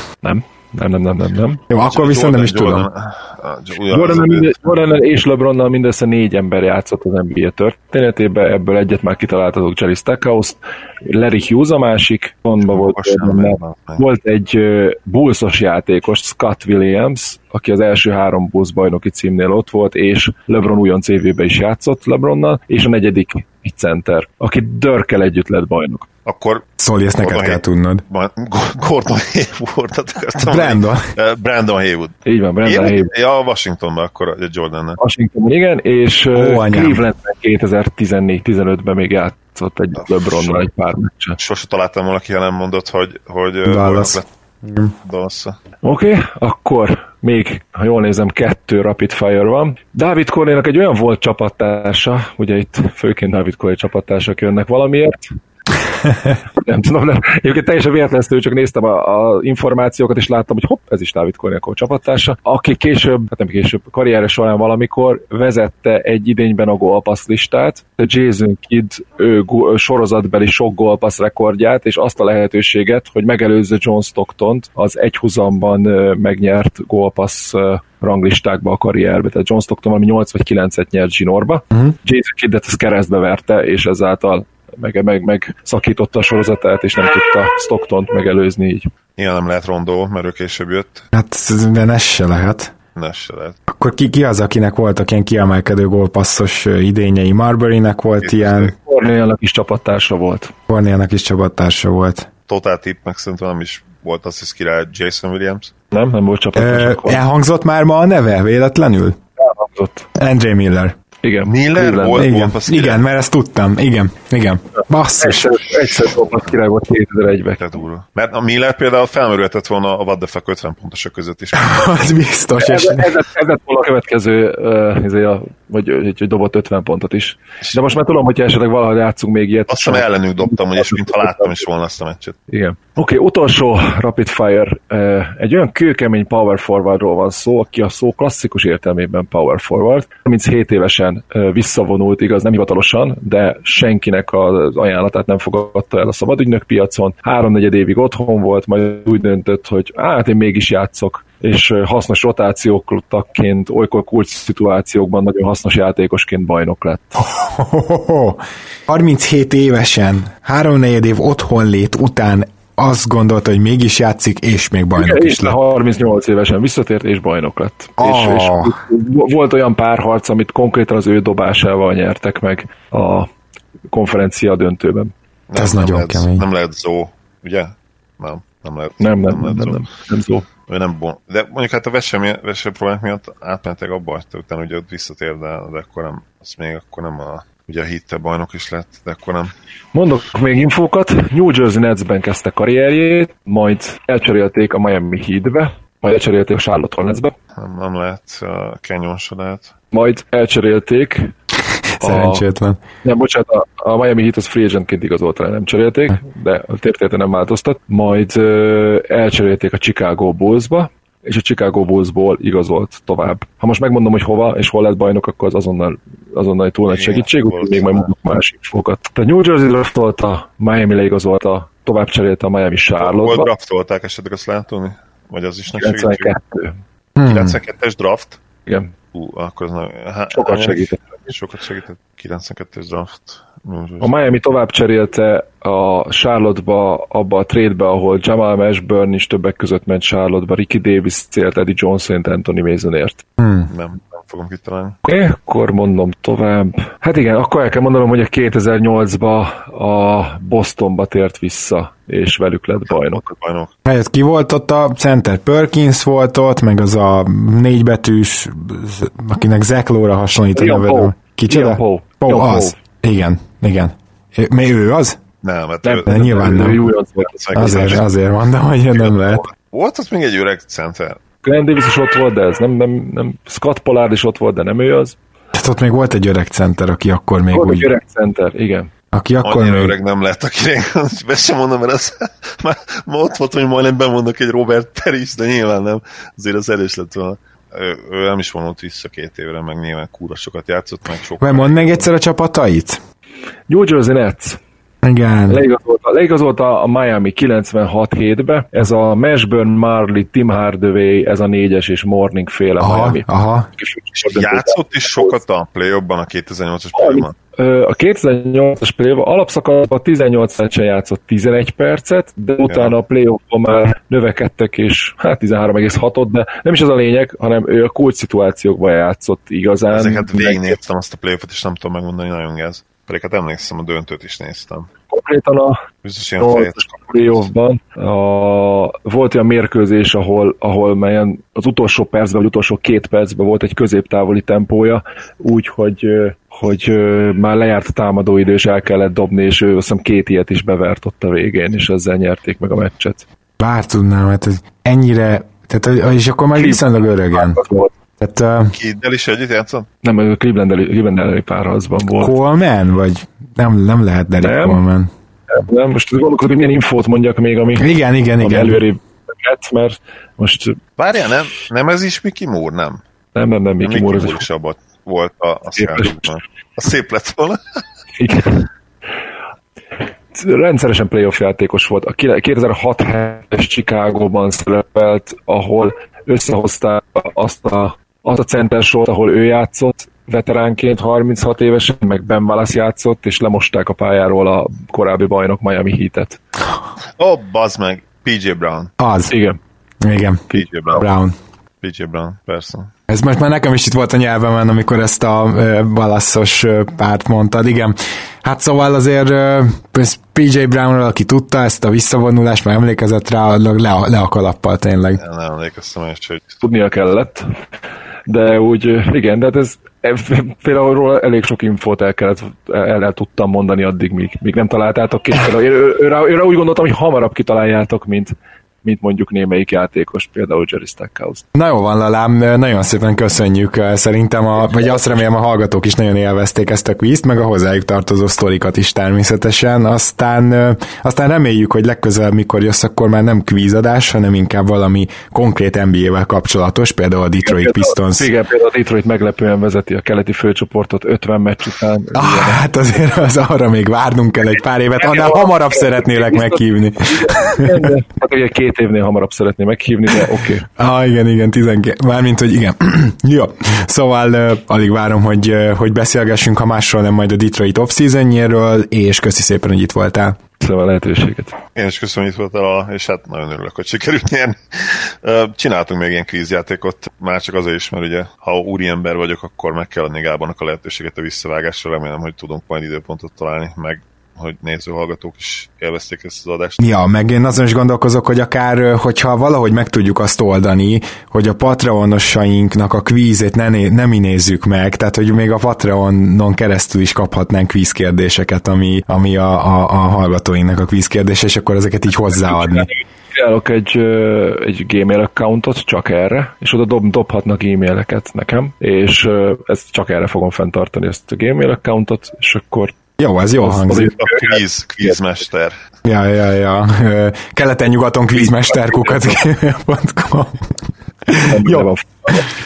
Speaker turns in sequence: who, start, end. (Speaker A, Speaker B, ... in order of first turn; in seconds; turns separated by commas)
Speaker A: 0.2-1.6, Speaker B: 1.7-2.9, Speaker C: 1.9-4.7, Speaker A: 3.9-26.1, Speaker C: 12.6-14.0, Speaker C: 26.3-35.0, Speaker B: 26.8-28.0, Speaker B: 30.4-31.1, Speaker A: 32.3-33.1, Speaker A: 35.0-41.4, Speaker B: 36.3-37.0, Speaker C: 40.0-40.6, Speaker C: 41.4-44.3, Speaker B: 43.7-44.9, Speaker C: 45.0-45.5, Speaker A: 45.8-55.3, Speaker A: 56.5-88.9, Speaker C: 89.2-91.0, Speaker B: 91.1-92.7, Speaker C: 93.0-93.6, Speaker B: 93.7-98.7, Speaker C: 98.2-98.7, Speaker A: 98.9-100.5, Speaker B: 100.7-102.3, Speaker C: 102.5-105.7, Speaker A: 105.9-107.2, Speaker B: 106.5-109.2, Speaker A: 109.4-110.1, Speaker B: 110.2-110.9, Speaker A: 111.2-112.2, Speaker C: 111.5-113.0, Speaker B: 112.1-115.8, Speaker A: 115.2-117.6, Speaker C: 117.6-122.2, Speaker B: 121.5-123.1, Speaker A: 122.6-131.5, Speaker C: 129.7-132.4, Speaker A: 132.5-157.2, Speaker B: 157.2-165.6, Speaker A: 165.0-173.3, Speaker B: 168.0-168.8, Speaker A: 173.9-175.1, Speaker C: 175.5-179.9, Speaker B: 175.6-176.4, Speaker A: 179.0-180.4, Speaker C: 180.7-189.5, Speaker A: 189.9-197.3, Speaker C: 197.6-199.7, Speaker A: 199.9-201.3, Speaker B: 201.9-202.8, Speaker A: 202.0-202.4, Speaker A: 203.0-223.5, Speaker C: 216.9-218.1, Speaker C: 223.0-226.3, Speaker A: 225.8-226.8, Speaker B: 227.2-227.6, Speaker C: 227.2-228.4, Speaker A: 228.7-228.9, Speaker C: 229.1-234.1, Speaker A: 230.3-231.3, Speaker A: 234.0-243.2, Speaker B: 243.4-243.7, Speaker C: 243.7-245.0, Speaker A: 245.0-253.2, Speaker C: 252.9-253.7, Speaker B: 253.8-265.2, Speaker A: 260.6-262.8, Speaker C: 265.4-268.1, Speaker A: 265.8-268.0, Speaker B: 266.1-266.8, Speaker B: 267.6-269.4, Speaker C: 269.0-271.2, Speaker A: 271.4-275.2, Speaker B: 275.5-277.9, Speaker A: 277.5-278.9, Speaker B: 279.1-279.9, Speaker C: 279.4-292.1, Speaker B: 291.4-293.0, Speaker A: 293.7-294.6, Speaker B: 295.0-295.6, Speaker A: 295.5-305.4, Speaker B: 302.8-303.7, Speaker C: 304.3-307.3, Speaker A: 306.9-320.8, Speaker C: 312.7-312.9, Speaker C: 319.9-324.9, Speaker A: 325.1-325.8, Speaker C: 326.0-327.4, Speaker A: 326.4-343.2, Speaker B: 343.6-347.6, Speaker A: 346.6-347.9, Speaker B: 348.2-348.7, Speaker C: 348.7-349.9, Speaker A: 350.0-352.3, Speaker B: 352.2-355.1, Speaker A: 354.4-354.8, Speaker A: 355.5-357.9, Speaker B: 357.8-358.8, Speaker A: 358.4-360.8, Speaker C: 361.0-363.0, Speaker A: 363.3-364.4, Speaker C: 363.8-367.6, Speaker A: 365.7-366.3, Speaker A: 368.2-368.7, Speaker A: 370.3-386.4, Speaker C: 387.2-388.9, Speaker B: 389.0-389.3, Speaker A: 389.3-389.6, Speaker B: 390.0-391.3, Speaker C: 390.5-391.1, Speaker C: 391.8-392.9, Speaker B: 393.1-405.2, Speaker C: 405.2-406.4, Speaker A: 406.6-407.6, Speaker A: 408.3-421.4, Speaker B: 421.5-438.3, Speaker A: 437.4-442.6, Speaker B: 442.1-447.9, Speaker A: 445.0-450.7, Speaker B: 450.8-460.4, Speaker A: 460.6-461.6, Speaker C: 461.7-476.8, Speaker B: 476.8-492.9, Speaker A: 492.3-502.9, Speaker B: 503.2-504.1, Speaker A: 503.6-505.2, Speaker C: 504.2-505.8, Speaker B: 506.1-510.7, Speaker A: 508.3-509.4, Speaker B: 511.3-511.9, Speaker A: 511.3-512.5